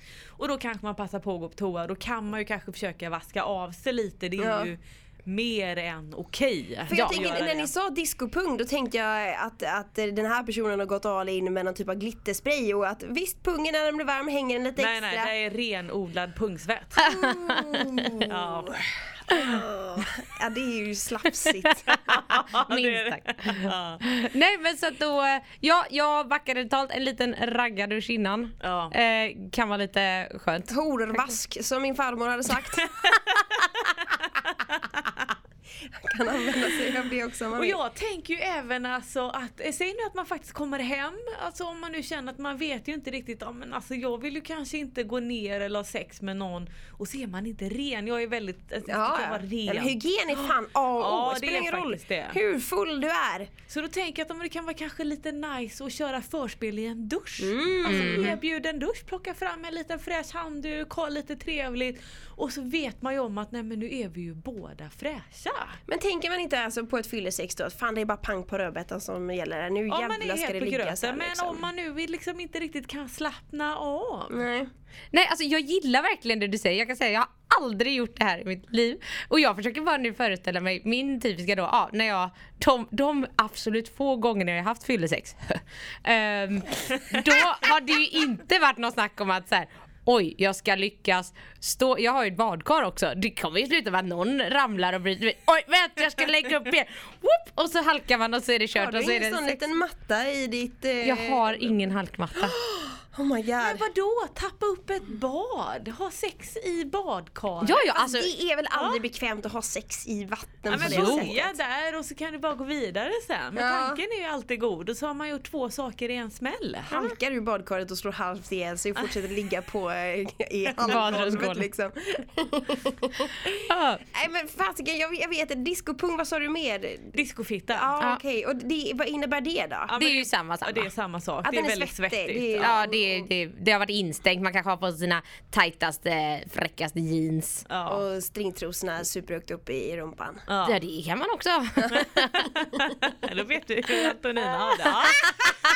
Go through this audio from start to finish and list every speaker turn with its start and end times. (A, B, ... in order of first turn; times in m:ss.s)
0:00.4-0:07.7 A
0:04.4-0:04.7 B
0:06.9-0:15.3 B
0:06.9-0:07.2 C
0:14.8-0:17.2 A
0:17.0-0:22.0 B
0:17.2-0:18.0 C
0:18.2-0:18.8 A
0:21.9-0:24.0 A
0:22.6-0:30.7 C
0:28.6-0:28.9 A
0:30.7-0:32.9 B
0:32.9-0:35.3 A
0:36.0-0:37.8 B
0:37.6-0:52.4 A
0:48.9-0:53.5 B
0:53.7-1:05.8 A
0:57.4-0:58.4 B
0:57.8-0:58.4 C
1:05.9-1:11.6 B
1:09.9-1:14.4 A
1:14.3-1:14.7 B
1:15.1-1:39.6 C
1:38.7-1:41.8 B
1:41.0-1:42.6 C
1:42.3-1:43.8 B
1:43.6-1:47.8 A
1:47.6-1:48.3 C
1:47.9-1:51.5 B
1:48.7-1:49.0 A
1:50.7-1:56.9 A
1:50.8-1:51.3 C
1:53.6-1:54.0 B
1:56.9-2:07.2 B
2:00.8-2:01.4 A
2:00.8-2:01.7 C
2:03.7-2:04.0 C
2:07.1-2:07.9 A
2:07.7-2:09.9 B
2:09.9-2:12.7 A
2:10.0-2:10.9 C
2:11.4-2:13.3 B
2:12.6-2:17.6 C
2:17.7-2:18.0 A
2:17.9-2:20.4 B
2:20.5-2:20.8 A
2:20.6-2:22.5 C
2:22.5-2:25.3 A